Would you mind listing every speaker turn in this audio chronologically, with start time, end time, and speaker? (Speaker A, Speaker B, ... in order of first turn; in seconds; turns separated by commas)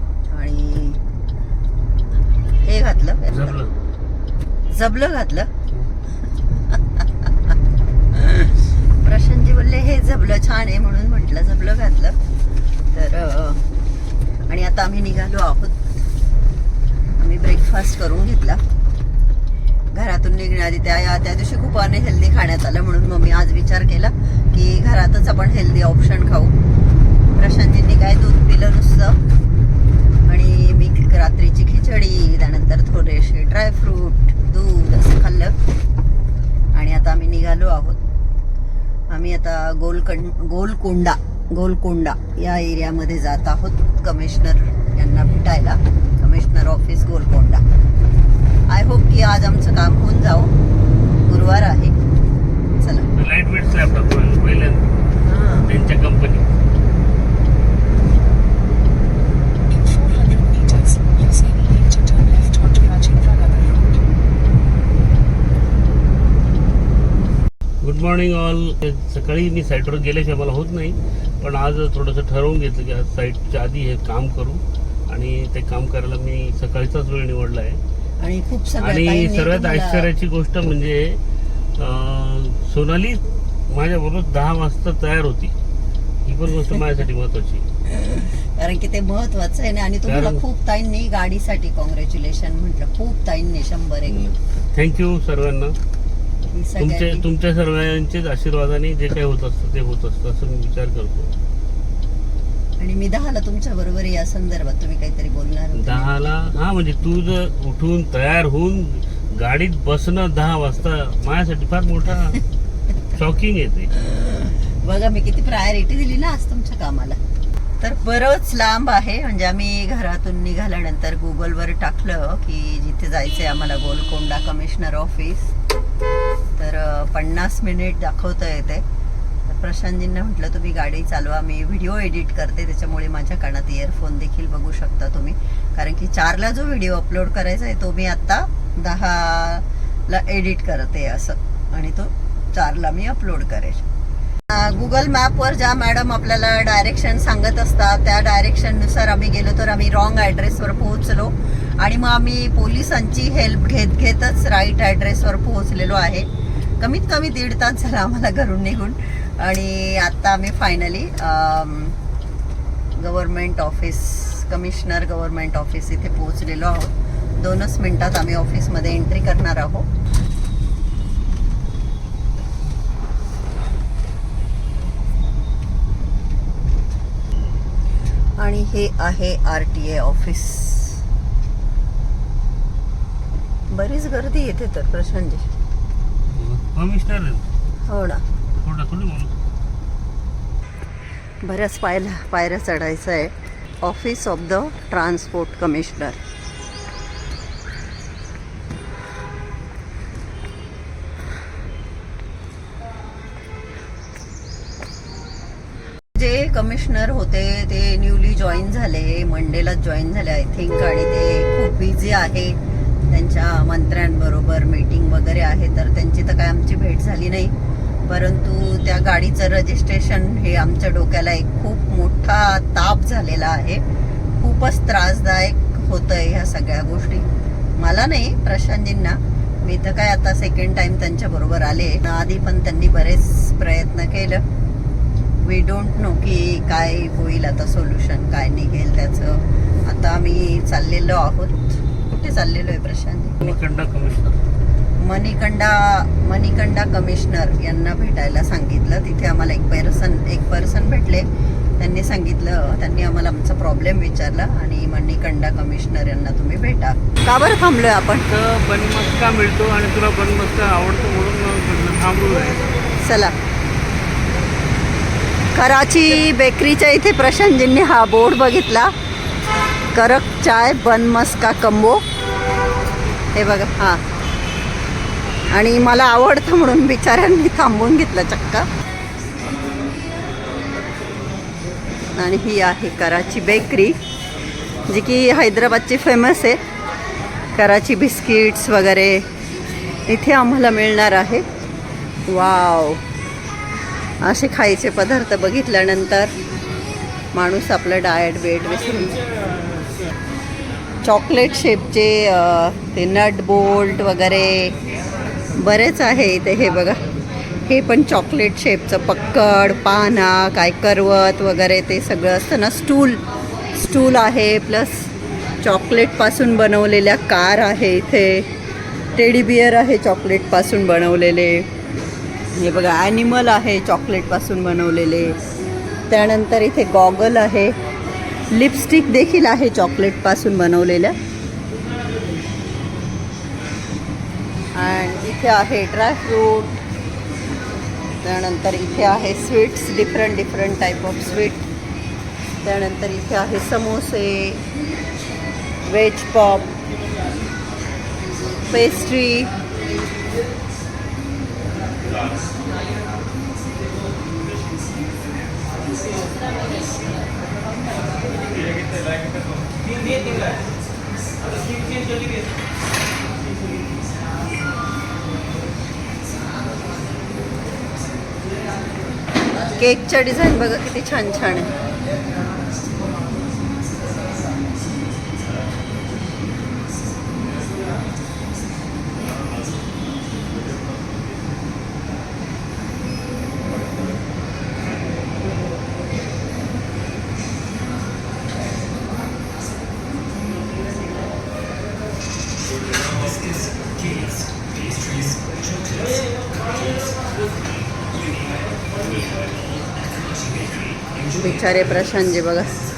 Speaker A: 0.3-1.0, Speaker A: 2.6-3.6, Speaker B: 3.3-3.7, Speaker A: 4.7-5.5, Speaker A: 6.7-7.3, Speaker A: 8.1-12.2, Speaker A: 12.9-13.6, Speaker A: 14.5-15.9, Speaker A: 17.2-18.6, Speaker A: 19.9-26.5, Speaker A: 27.3-29.2, Speaker A: 30.3-35.5, Speaker A: 36.7-38.0, Speaker A: 39.1-47.6, Speaker A: 48.7-50.5, Speaker A: 51.3-52.0, Speaker A: 52.8-53.1, Speaker B: 53.1-54.9, Speaker A: 55.2-55.7, Speaker B: 55.7-56.5, Speaker C: 59.8-63.8, Speaker B: 67.8-77.8, Speaker A: 78.2-80.1, Speaker B: 78.8-81.2, Speaker B: 81.8-85.5, Speaker B: 86.2-87.6, Speaker A: 87.9-94.3, Speaker B: 90.1-90.4, Speaker B: 94.1-95.7, Speaker A: 96.5-97.2, Speaker B: 96.8-101.3, Speaker A: 102.8-106.1, Speaker B: 105.8-112.4, Speaker B: 113.1-113.9, Speaker A: 114.0-117.2, Speaker A: 117.8-125.5, Speaker A: 126.6-128.8, Speaker A: 129.5-143.8, Speaker A: 144.5-156.3, Speaker A: 156.8-162.0, Speaker A: 163.0-169.9, Speaker A: 178.4-181.0, Speaker A: 183.7-185.4, Speaker B: 186.3-187.5, Speaker A: 187.9-188.2, Speaker B: 188.6-189.3, Speaker A: 191.4-196.2, Speaker A: 206.1-212.6, Speaker A: 213.1-217.5, Speaker A: 218.1-223.8, Speaker A: 224.4-227.3, Speaker A: 227.8-234.4, Speaker A: 235.4-243.6, Speaker B: 243.4-244.4, Speaker A: 245.0-251.2, Speaker A: 251.8-258.3, Speaker B: 258.2-262.6, Speaker A: 263.0-263.3, Speaker A: 265.5-268.9, Speaker A: 269.9-272.0, Speaker A: 273.3-274.0, Speaker A: 275.5-278.6, Speaker A: 282.2-283.9, Speaker A: 284.9-286.6, Speaker A: 287.6-289.2, Speaker A: 290.1-291.4, Speaker A: 292.3-293.0, Speaker A: 294.2-296.3, Speaker A: 297.3-299.2, Speaker A: 301.0-304.7, Speaker A: 305.6-307.0, Speaker A: 307.7-313.2, Speaker A: 313.8-315.1, Speaker A: 315.6-318.5, Speaker A: 319.1-321.7, Speaker A: 322.6-325.4, Speaker A: 326.1-327.7, Speaker A: 328.5-331.1, Speaker A: 334.8-336.8, Speaker A: 338.2-341.7, Speaker A: 342.6-344.6, Speaker A: 345.9-346.7, Speaker A: 348.7-349.5, Speaker A: 369.8-371.7, Speaker A: 401.4-402.7